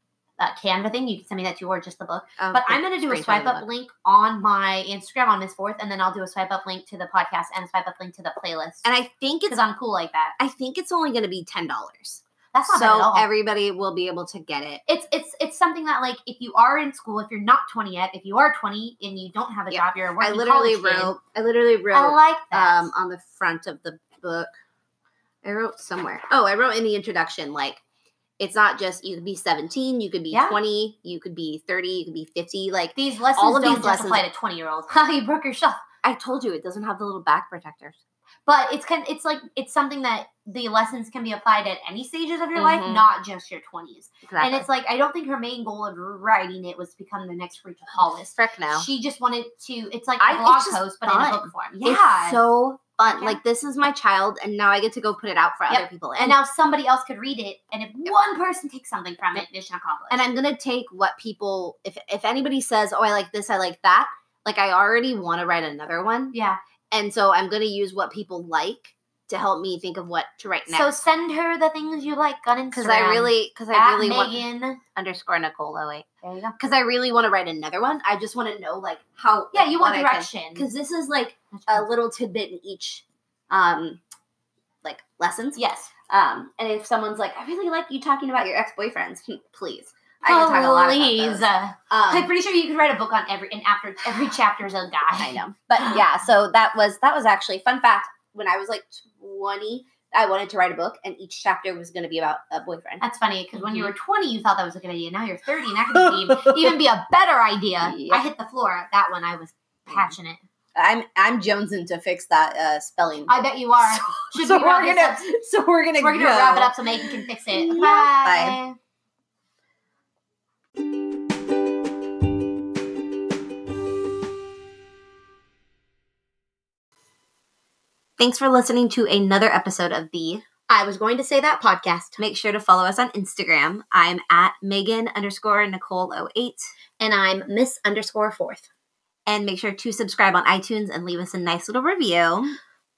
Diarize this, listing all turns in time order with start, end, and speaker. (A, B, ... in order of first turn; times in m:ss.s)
0:00.4-0:08.9 A
0:02.4-0:03.6 B
0:08.8-0:09.6 B
0:09.5-0:10.4 A
0:10.4-0:14.8 B
0:12.5-0:13.3 A
0:14.9-0:21.1 A
0:19.7-0:24.5 B
0:21.9-0:22.9 A
0:25.4-0:27.8 B
0:28.4-0:34.2 B
0:30.3-0:30.6 A
0:33.0-0:35.8 A
0:36.0-0:38.0 B
0:38.5-0:52.4 A
0:42.5-0:43.0 B
0:44.3-0:44.6 B
0:48.2-0:48.9 B
0:50.2-0:56.4 B
0:53.1-0:53.4 A
0:55.7-1:00.3 A
1:00.1-1:06.4 B
1:06.3-1:06.6 A
1:06.9-1:11.0 B
1:10.7-1:14.8 A
1:12.7-1:14.4 B
1:14.9-1:24.0 B
1:16.2-1:16.6 A
1:19.5-1:20.7 A
1:21.5-1:21.9 A
1:24.8-1:32.3 B
1:25.6-1:25.9 A
1:30.2-1:36.0 A
1:35.2-1:43.0 B
1:43.0-1:50.4 A
1:43.6-1:43.9 B
1:45.9-1:46.8 B
1:47.8-1:48.2 B
1:50.7-1:58.6 B
1:53.3-1:55.3 A
1:56.0-1:58.8 A
2:08.2-2:10.4 B
2:10.7-2:12.2 A
2:12.2-2:16.7 B
2:17.0-2:18.7 A
2:19.2-2:22.6 B